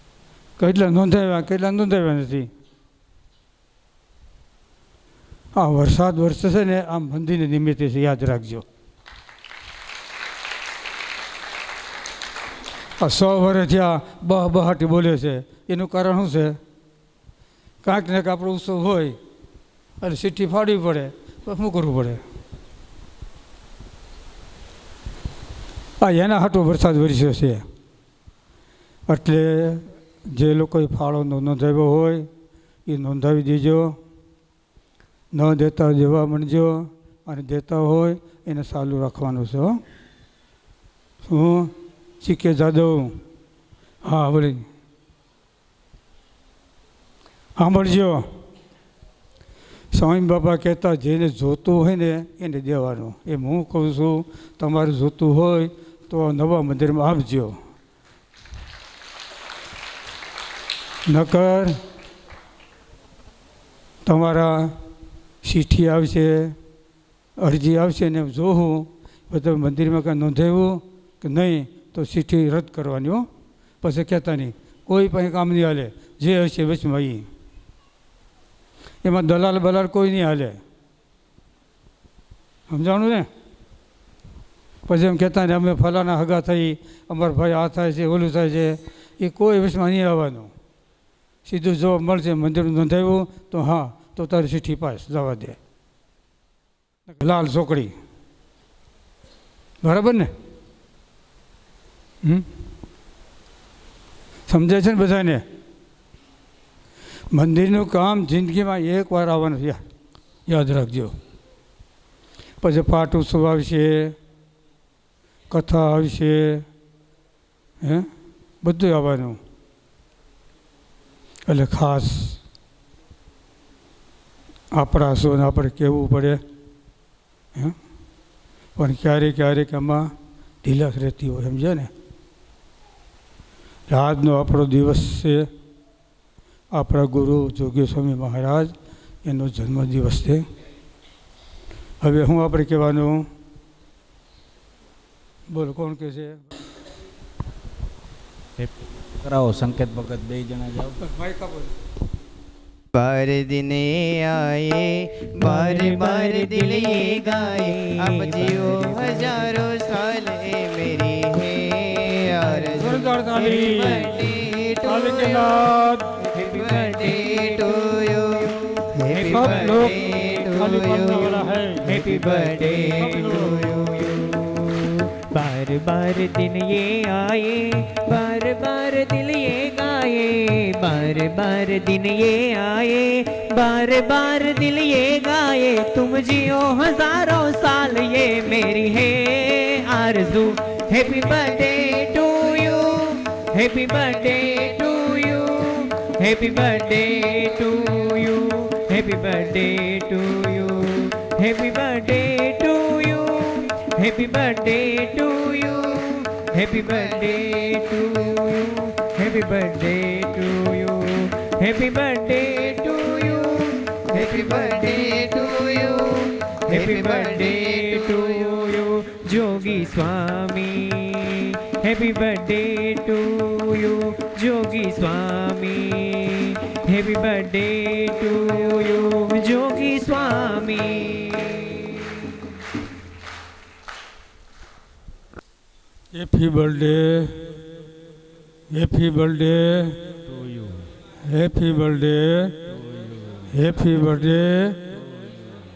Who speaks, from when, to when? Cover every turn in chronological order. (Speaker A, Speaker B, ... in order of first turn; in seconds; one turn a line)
Speaker A: 0.6-2.5
Speaker A: 5.5-8.6
Speaker A: 13.0-16.6
Speaker A: 17.8-19.2
Speaker A: 20.0-22.2
Speaker A: 26.0-27.6
Speaker A: 29.1-32.3
Speaker A: 32.9-34.0
Speaker A: 35.3-39.8
Speaker A: 41.2-43.2
Speaker A: 44.0-44.6
Speaker A: 47.6-48.2
Speaker A: 49.9-57.6
Speaker A: 61.1-61.8
Speaker A: 64.0-64.8
Speaker A: 65.4-66.5
Speaker A: 67.4-73.3
Speaker A: 73.8-77.3
Speaker A: 79.0-80.6
Speaker A: 82.7-83.3
Speaker A: 84.9-90.5
Speaker A: 91.4-95.6
Speaker A: 97.1-97.9
Speaker A: 99.8-100.3
Speaker A: 104.5-105.4
Speaker A: 107.3-109.8
Speaker A: 110.5-111.2
Speaker A: 112.6-114.1
Speaker A: 115.5-116.7
Speaker A: 117.8-118.1
Speaker A: 118.6-119.4
Speaker A: 121.5-122.4
Speaker A: 124.7-126.4
Speaker A: 128.8-130.1
Speaker A: 130.6-131.9
Speaker A: 133.9-135.5
Speaker A: 136.7-140.4
Speaker A: 142.0-143.3
Speaker A: 145.5-146.4
Speaker B: 148.6-151.0
Speaker A: 151.0-151.7
Speaker C: 152.9-165.7
Speaker D: 155.4-159.6
Speaker D: 162.5-162.8
Speaker A: 162.8-164.3
Speaker D: 163.4-164.4
Speaker A: 164.8-166.1
Speaker D: 166.3-168.1
Speaker C: 166.4-174.4
Speaker D: 169.1-170.4
Speaker A: 169.3-171.9
Speaker D: 171.8-215.3
Speaker A: 173.0-173.6
Speaker C: 206.7-207.4
Speaker C: 214.1-218.6
Speaker D: 216.7-232.4
Speaker A: 236.1-237.4
Speaker A: 238.7-240.0
Speaker B: 240.3-240.9
Speaker A: 241.2-242.5
Speaker B: 242.7-243.5
Speaker A: 243.5-244.8
Speaker B: 244.9-245.6